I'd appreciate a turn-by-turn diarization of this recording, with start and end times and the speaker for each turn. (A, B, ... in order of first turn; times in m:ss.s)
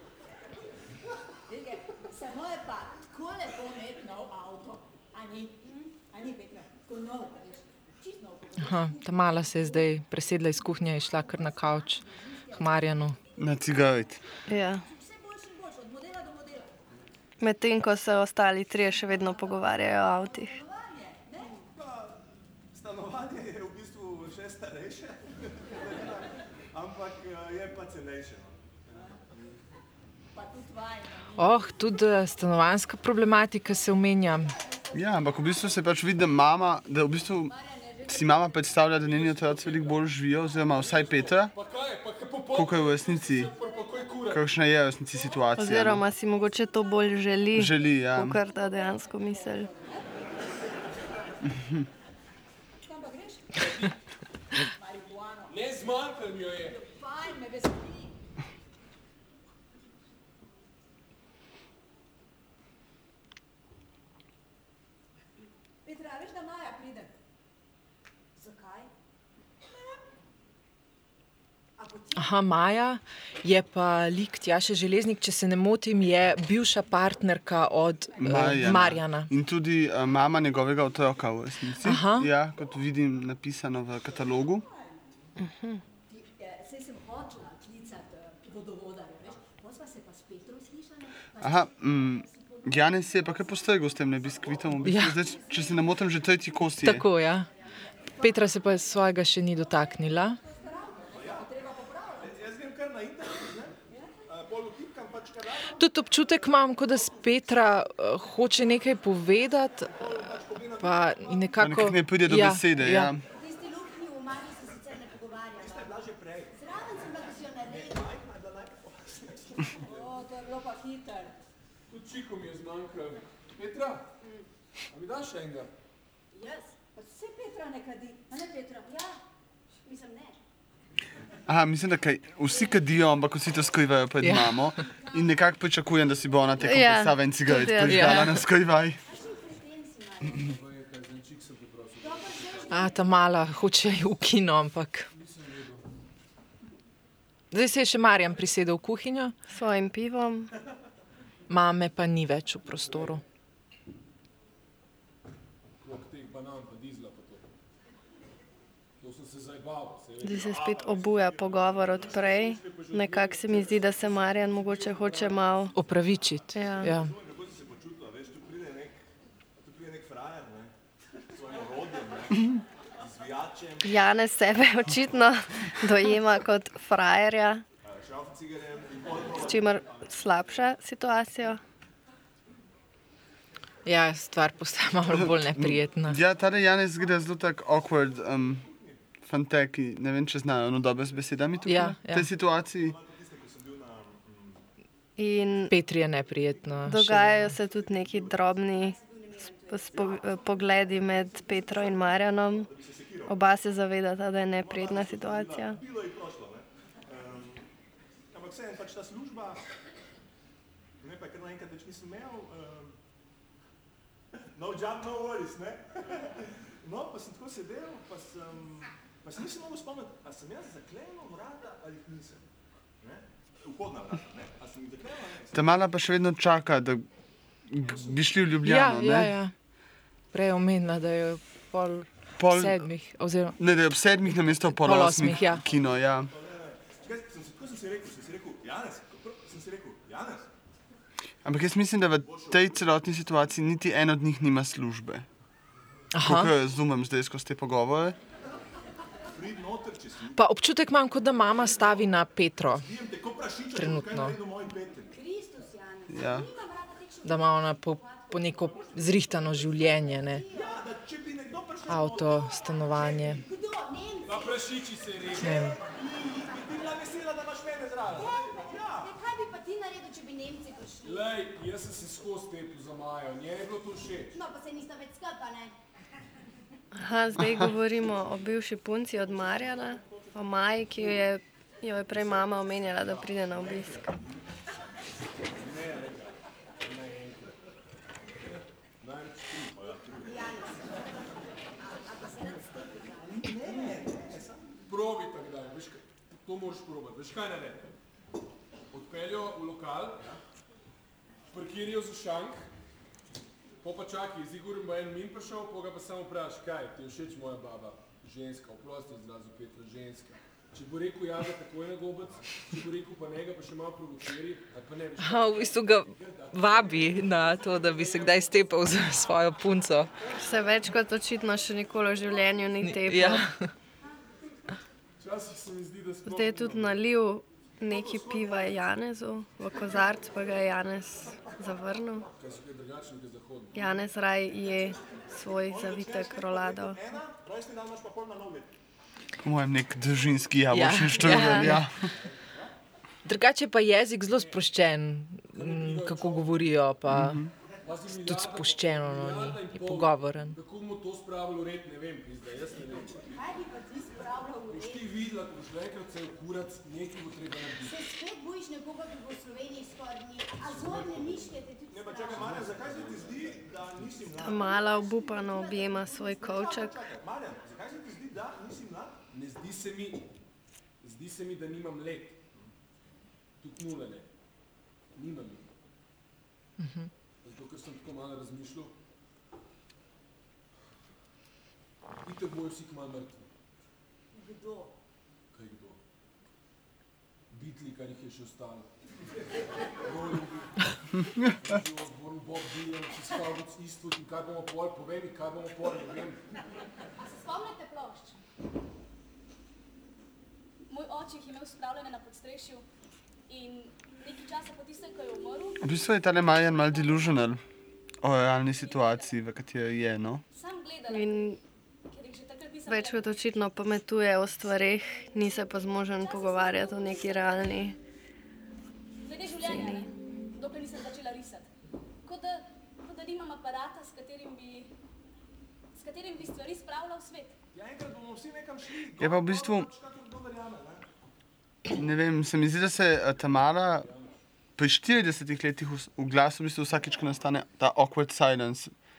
0:01.5-0:13.9 A
0:05.6-0:05.9 B
0:08.6-0:12.0 C
0:12.6-0:13.2 C
0:13.4-0:14.2 D
0:14.5-0:14.9 E
0:14.7-0:16.8 A
0:17.4-0:20.6 E
0:19.0-0:21.6 A
0:21.8-0:29.6 F
0:28.9-0:29.2 A
0:30.3-0:32.3 A
0:31.4-0:34.6 C
0:34.3-0:35.8 A
0:34.9-0:37.6 D
0:37.5-0:38.7 A
0:38.1-0:41.5 D
0:38.7-0:44.5 G
0:42.5-0:43.5 D
0:43.1-0:44.3 A
0:44.3-0:46.1 D
0:45.1-0:51.6 A
0:45.6-0:49.7 E
0:47.5-0:48.4 D
0:52.8-0:53.7 A
0:53.6-0:54.0 G
0:54.7-0:58.2 A
0:55.5-0:56.8 G
1:05.8-1:07.1 A
1:08.4-1:08.8 A
1:11.8-1:12.4 A
1:12.2-1:19.3 C
1:18.1-1:18.9 A
1:18.2-1:24.7 D
1:21.8-1:22.3 C
1:24.1-1:25.1 A
1:25.4-1:25.8 E
1:26.1-1:34.4 A
1:31.4-1:37.1 D
1:34.3-1:35.0 F
1:34.8-1:35.2 C
1:35.2-1:36.0 A
1:36.8-1:37.5 C
1:37.8-1:42.3 A
1:38.2-1:40.4 C
1:41.1-1:41.5 F
1:42.2-1:43.8 F
1:44.3-1:45.9 F
1:45.8-1:50.2 C
1:49.9-1:51.6 F
1:50.8-1:53.1 C
1:51.6-1:53.2 D
1:53.3-1:55.9 B
1:55.6-1:56.5 F
1:56.5-1:58.1 B
1:57.7-2:00.0 F
1:59.8-2:01.4 A
2:01.9-2:04.1 G
2:04.2-2:04.5 B
2:04.9-2:05.7 G
2:06.3-2:06.8 B
2:07.0-2:09.0 A
2:08.9-2:09.2 B
2:09.8-2:10.4 B
2:11.5-2:19.0 D
2:14.2-2:14.8 C
2:15.0-2:15.4 B
2:16.6-2:18.4 E
2:17.8-2:18.3 C
2:19.0-2:20.6 B
2:20.3-2:22.9 G
2:22.0-2:23.0 B
2:22.7-2:25.1 C
2:25.1-2:25.9 G
2:27.5-2:29.3 C
2:29.5-2:30.5 E
2:31.5-2:33.2 C
2:32.7-2:33.2 G
2:35.8-2:37.5 G
2:39.0-2:40.6 G
2:40.2-2:45.8 E
2:40.4-2:42.6 F
2:41.9-2:45.6 G
2:45.7-2:47.1 C
2:46.3-2:49.0 F
2:46.5-2:46.9 E
2:49.6-2:50.7 F
2:51.3-2:54.0 F
2:53.8-2:57.6 E
2:57.8-3:00.2 F
2:59.4-3:01.6 E
3:03.8-3:06.2 C
3:05.1-3:08.7 D
3:07.7-3:09.0 F
3:09.3-3:13.0 D
3:11.1-3:14.6 F
3:11.7-3:12.3 C
3:15.2-3:15.7 E
3:15.7-3:17.5 C
3:16.8-3:18.5 F
3:16.9-3:19.0 E
3:18.6-3:22.1 B
3:19.7-3:22.7 E
3:20.7-3:21.3 A
3:21.5-3:23.4 F
3:23.3-3:25.8 E
3:24.6-3:27.7 F
3:28.3-3:29.6 F
3:31.0-3:33.0 F
3:34.6-3:42.5 F
3:43.0-3:45.8 F
3:45.5-3:47.1 D
3:47.7-3:49.3 D
3:47.9-3:48.2 F
3:48.6-3:49.5 C
3:50.3-3:53.6 C
3:52.4-3:52.9 D
3:53.6-3:56.3 D
3:54.8-3:55.6 C
3:55.1-4:00.5 F
4:01.4-4:05.3 D
4:02.2-4:02.8 F
4:06.1-4:06.5 C
4:06.2-4:08.2 D
4:09.3-4:10.4 F
4:10.4-4:12.9 C
4:11.8-4:12.1 F
4:12.7-4:15.1 F
4:13.7-4:14.4 C
4:15.1-4:20.8 B
4:16.1-4:16.5 D
4:17.2-4:20.4 C
4:20.5-4:23.4 F
4:21.9-4:23.4 C
4:22.4-4:27.0 B
4:24.2-4:25.8 G
4:25.4-4:25.8 C
4:25.5-4:29.1 F
4:28.0-4:28.3 G
4:28.1-4:31.3 B
4:31.0-4:34.4 G
4:34.3-4:35.8 B
4:36.9-4:44.1 E
4:39.3-4:40.3 F
4:42.1-4:44.4 F
4:45.6-4:47.6 G
4:45.8-4:46.1 F
4:49.0-4:50.0 G
4:49.7-4:50.5 F
4:50.2-4:53.8 B
4:53.3-4:54.7 F
4:54.8-4:57.9 G
4:58.9-5:00.3 G
5:01.5-5:02.7 G
5:03.8-5:19.3 G
5:15.2-5:20.1 C
5:20.3-5:23.5 E
5:22.8-5:23.7 C
5:25.2-5:27.0 G
5:26.2-5:32.3 E
5:27.8-5:28.9 F
5:32.4-5:34.0 G
5:33.7-5:37.0 E
5:35.5-5:38.8 F
5:39.4-5:42.1 D
5:40.7-5:41.9 C
5:41.2-5:41.8 E
5:43.2-5:47.4 C
5:44.3-5:44.6 G
5:45.5-5:46.7 G
5:47.1-5:47.5 D
5:47.8-5:53.4 G
5:48.2-5:50.6 C
5:53.3-5:55.2 B
5:54.7-5:58.0 G
5:57.8-6:02.6 B
6:00.6-6:01.4 G
6:01.9-6:09.2 F
6:02.2-6:04.2 G
6:04.4-6:07.1 E
6:04.7-6:05.6 B
6:09.3-6:10.2 G
6:11.0-6:12.4 G
6:13.6-6:14.3 G
6:15.1-6:15.7 G
6:16.8-6:17.1 C
6:17.4-6:18.9 G
6:22.2-6:23.5 G
6:24.3-6:24.9 B
6:25.5-6:26.0 G
6:27.5-6:29.4 G
6:29.9-6:36.4 G
6:37.2-6:38.4 B
6:40.9-6:42.9 H
6:43.5-6:45.9 H
6:45.8-6:47.6 D
6:46.6-6:47.3 H
6:48.2-6:50.4 D
6:48.7-6:49.4 H
6:50.5-6:51.6 H
6:51.1-6:51.6 E
6:52.1-6:53.4 H
6:52.9-6:58.0 E
6:56.2-6:57.7 H
6:59.2-7:01.7 H
6:59.6-7:00.1 E
7:02.2-7:04.9 H
7:05.9-7:07.6 H
7:07.7-7:11.1 F
7:09.2-7:09.9 D
7:11.9-7:14.1 D
7:14.0-7:14.4 G
7:14.8-7:18.9 D